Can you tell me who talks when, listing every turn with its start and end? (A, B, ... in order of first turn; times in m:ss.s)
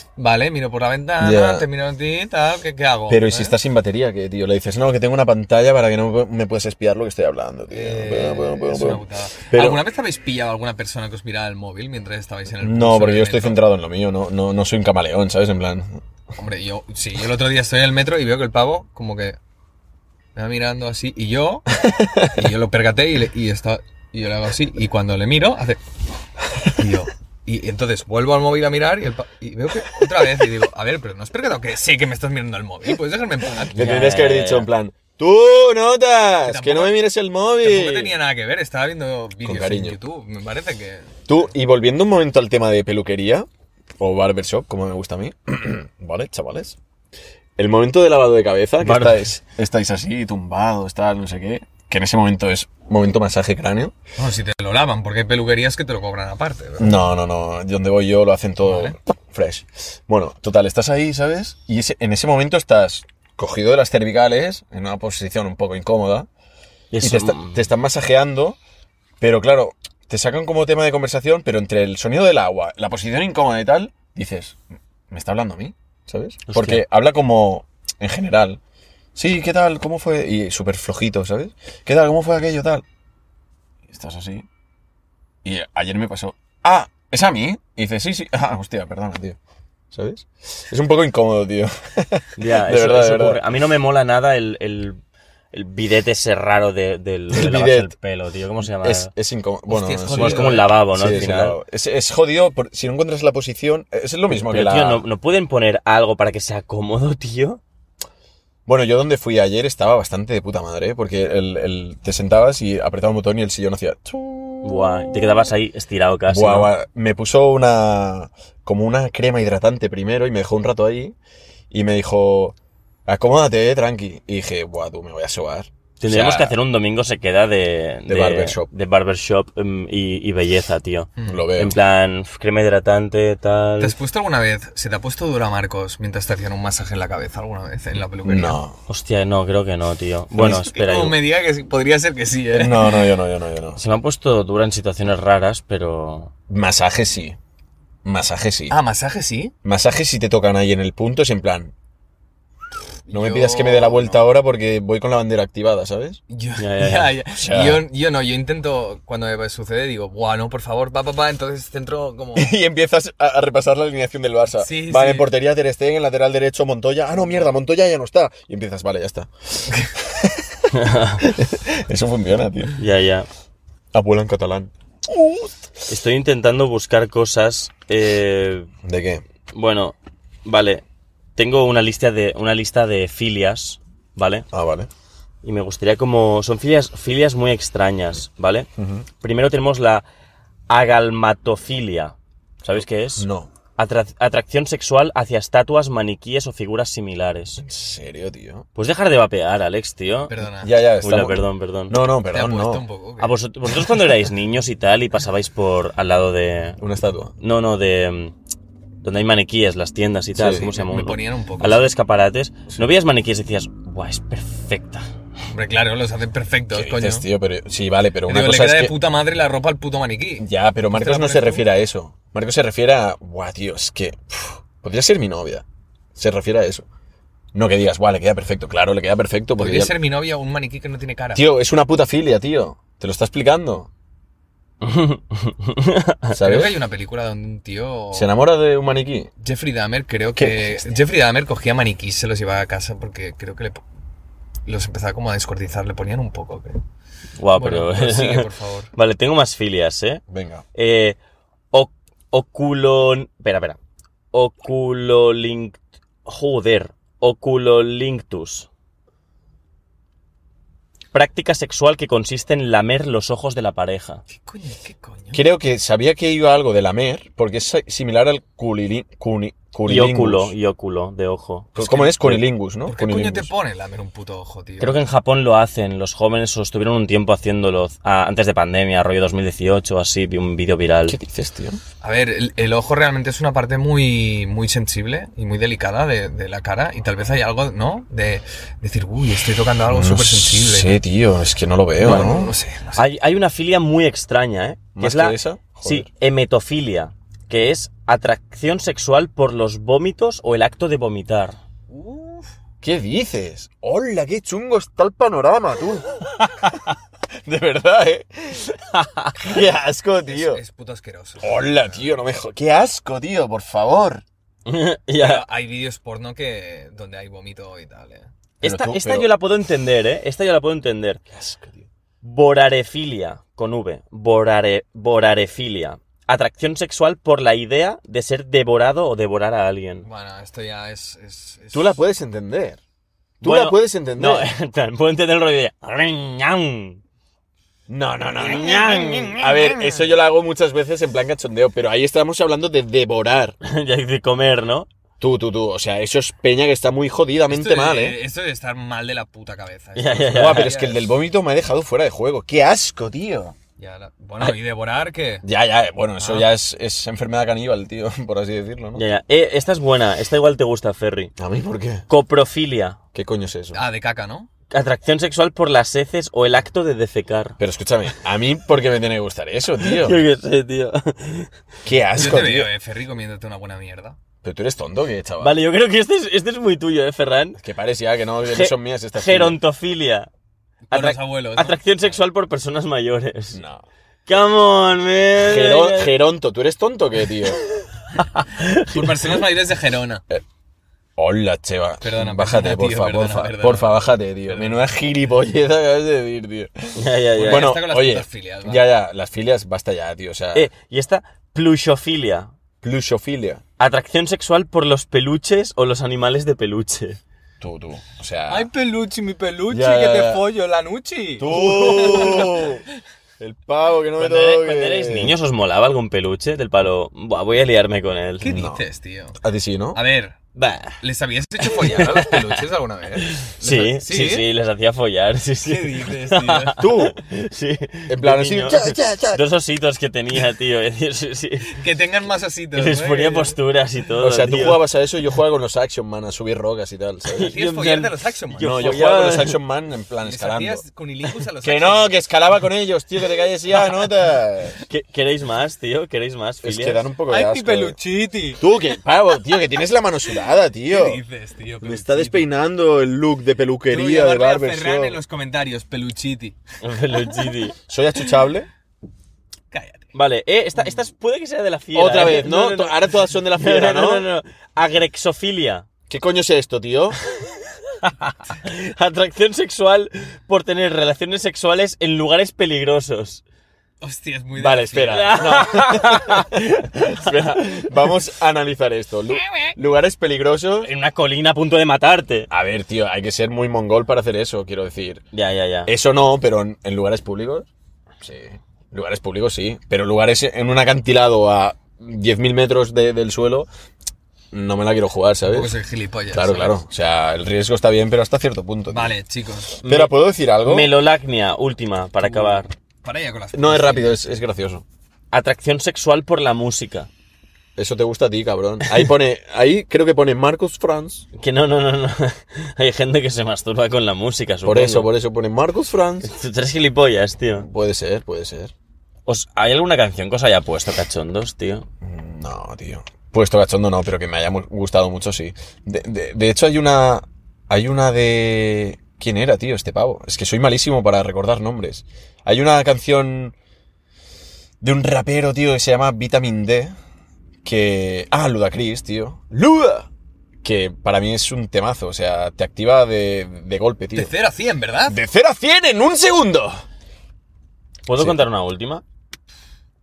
0:00.2-0:03.6 A
0:01.2-0:01.7 B
0:03.1-0:09.8 B
0:07.7-0:13.6 A
0:12.6-0:16.0 B
0:16.4-0:19.4 A
0:20.4-0:21.7 A
0:21.8-0:22.5 B
0:22.3-0:25.8 A
0:26.8-0:33.9 A
0:33.7-0:38.2 B
0:33.8-0:34.7 C
0:36.5-0:37.0 A
0:37.6-0:41.5 A
0:39.4-0:40.0 B
0:41.3-0:43.5 B
0:44.0-0:46.8 B
0:47.6-0:54.0 B
0:48.8-0:49.2 C
0:54.2-0:57.0 A
0:56.8-1:06.3 B
0:58.6-0:59.0 A
1:06.9-1:07.6 C
1:07.0-1:08.6 B
1:09.2-1:14.6 B
1:15.1-1:18.6 B
1:16.5-1:16.8 C
1:19.2-1:22.8 B
1:23.9-1:24.5 B
1:25.4-1:29.4 B
1:29.9-1:33.4 B
1:32.4-1:35.0 C
1:35.5-1:39.1 C
1:37.3-1:37.9 B
1:38.7-1:45.0 B
1:39.7-1:40.7 A
1:40.1-1:41.6 C
1:44.3-1:47.6 C
1:48.7-1:55.4 B
1:54.6-1:56.7 C
1:56.3-2:01.2 B
2:01.7-2:02.6 B
2:03.1-2:06.6 B
2:06.0-2:14.0 C
2:08.1-2:08.7 B
2:11.3-2:11.8 B
2:13.8-2:18.6 A
2:18.2-2:18.8 B
2:18.9-2:21.2 C
2:20.4-2:23.1 A
2:22.5-2:23.8 B
2:23.8-2:26.3 C
2:26.5-2:27.4 B
2:28.0-2:28.8 B
2:28.7-2:29.5 A
2:29.6-2:31.7 B
2:33.1-2:34.2 A
2:33.1-2:36.2 B
2:36.3-2:42.5 A
2:36.6-2:37.2 C
2:37.3-2:37.8 B
2:42.4-2:52.8 B
2:44.6-2:45.3 A
2:50.7-2:51.2 C
2:52.8-2:53.3 C
2:53.9-2:55.5 B
2:55.9-2:58.7 C
2:58.8-2:59.2 B
2:59.5-3:00.8 C
3:01.4-3:04.5 C
3:04.5-3:04.9 B
3:05.4-3:08.7 C
3:08.8-3:09.1 B
3:09.2-3:10.0 C
3:10.7-3:17.6 C
3:12.8-3:13.5 B
3:17.6-3:18.7 B
3:18.8-3:20.3 C
3:20.3-3:20.7 A
3:20.6-3:22.8 B
3:21.0-3:22.0 C
3:22.3-3:23.4 A
3:23.2-3:26.8 C
3:26.8-3:27.3 B
3:27.4-3:28.3 C
3:29.0-3:35.1 C
3:30.4-3:30.7 B
3:30.6-3:31.9 A
3:35.5-3:37.2 A
3:36.7-3:38.9 B
3:38.3-3:41.6 A
3:40.4-3:45.6 B
3:46.2-3:46.9 B
3:47.5-3:49.9 B
3:49.6-3:51.4 A
3:51.4-3:53.9 B
3:54.8-3:56.4 C
3:56.3-3:56.8 B
3:56.4-3:58.3 A
3:58.1-3:59.3 B
3:59.4-4:03.8 A
4:00.4-4:00.8 B
4:04.7-4:06.8 A
4:07.4-4:10.2 C
4:07.6-4:08.9 A
4:10.3-4:10.6 B
4:10.8-4:11.2 C
4:11.7-4:13.8 C
4:14.3-4:18.7 C
4:21.1-4:24.2 C
4:24.4-4:25.4 A
4:25.3-4:30.5 B
4:29.8-4:32.4 C
4:31.8-4:33.5 B
4:32.9-4:35.0 A
4:34.8-4:41.2 C
4:41.1-4:41.8 B
4:42.0-4:51.0 A
4:49.9-4:52.5 B
4:52.0-4:53.0 A
4:52.0-4:52.3 C
4:53.0-5:01.6 C
4:55.0-4:56.1 B
5:01.9-5:02.5 A
5:02.8-5:06.7 B
5:07.5-5:08.7 B
5:08.9-5:09.6 C
5:09.4-5:10.6 B
5:10.3-5:12.1 A
5:11.4-5:14.2 B
5:14.7-5:15.5 C
5:15.2-5:18.3 A
5:18.6-5:21.2 C
5:18.6-5:19.3 B
5:21.3-5:21.9 B
5:22.2-5:30.1 C
5:30.0-5:32.0 A
5:31.7-5:32.8 B
5:33.4-5:37.0 C
5:33.4-5:34.5 B
5:37.9-5:43.6 B
5:38.4-5:40.0 C
5:43.6-5:44.9 C
5:45.2-5:48.2 B
5:47.5-5:51.1 A
5:50.0-5:50.7 C
5:50.3-5:53.6 B
5:53.8-5:55.4 A
5:55.4-5:59.0 B
5:56.2-5:56.5 A
5:59.0-6:01.3 C
6:01.4-6:02.1 B
6:02.1-6:03.0 C
6:03.1-6:03.8 B
6:03.7-6:04.5 A
6:04.7-6:07.6 C
6:07.6-6:10.2 B
6:09.8-6:11.5 C
6:11.8-6:12.7 B
6:12.2-6:14.2 A
6:14.4-6:15.6 B
6:15.4-6:17.6 C
6:17.6-6:19.6 B
6:18.5-6:20.3 C
6:20.9-6:21.8 A
6:20.9-6:23.6 C
6:23.5-6:23.8 B
6:24.3-6:26.2 C
6:25.4-6:27.6 B
6:28.2-6:29.4 C
6:28.8-6:30.2 A
6:31.2-6:40.7 B
6:32.0-6:34.8 A
6:37.0-6:37.8 C
6:37.3-6:38.9 A
6:40.5-6:42.5 C
6:42.8-6:43.6 B
6:43.8-6:47.2 C
6:47.6-6:48.7 B
6:48.5-6:52.7 A
6:49.7-6:50.4 B
6:51.4-6:52.8 B
6:51.4-6:52.5 C
6:53.4-6:55.4 B
6:54.2-6:58.6 C
6:58.4-6:59.4 A
6:58.4-6:58.8 B
6:59.4-7:00.0 B
7:00.0-7:00.4 A
7:00.6-7:01.0 C
7:01.0-7:04.5 A
7:01.6-7:02.6 C
7:03.2-7:11.8 C
7:05.6-7:06.8 A
7:06.7-7:07.2 B
7:08.1-7:09.4 B
7:11.7-7:13.6 A
7:12.7-7:14.8 C
7:14.2-7:17.5 B
7:17.3-7:19.6 C
7:17.4-7:19.0 A
7:18.6-7:20.8 B
7:20.2-7:22.2 A
7:21.6-7:24.8 B
7:24.8-7:27.1 C
7:26.6-7:28.0 B
7:27.3-7:28.6 A
7:28.6-7:31.2 B
7:30.9-7:32.5 A
7:31.8-7:35.2 B
7:33.9-7:36.6 A
7:36.8-7:37.8 C
7:37.2-7:37.5 A
7:37.9-7:38.7 B
7:39.7-7:40.1 A
7:40.1-7:45.9 C
7:41.9-7:44.3 B
7:46.1-7:47.2 B
7:47.2-7:53.4 C
7:54.0-7:55.7 A
7:54.6-8:00.9 B
7:55.1-7:58.1 C
8:00.8-8:02.5 C
8:02.5-8:05.2 B
8:05.3-8:05.9 C
8:05.9-8:07.7 B
8:08.2-8:13.7 B
8:14.5-8:15.7 B
8:15.5-8:16.8 A
8:16.3-8:19.1 B
8:18.9-8:19.7 A
8:19.8-8:20.9 B
8:19.8-8:22.7 C
8:22.3-8:24.2 A
8:23.5-8:24.8 B
8:25.3-8:27.1 C
8:27.8-8:31.3 B
8:31.4-8:35.1 C
8:34.6-8:36.3 B
8:36.2-8:37.7 C
8:37.6-8:38.7 B
8:39.3-8:41.9 C
8:42.0-8:53.6 B
8:54.8-8:57.0 B
8:57.6-9:00.1 B
9:00.6-9:04.3 B
9:04.1-9:05.2 A
9:05.1-9:06.8 B
9:08.1-9:09.0 C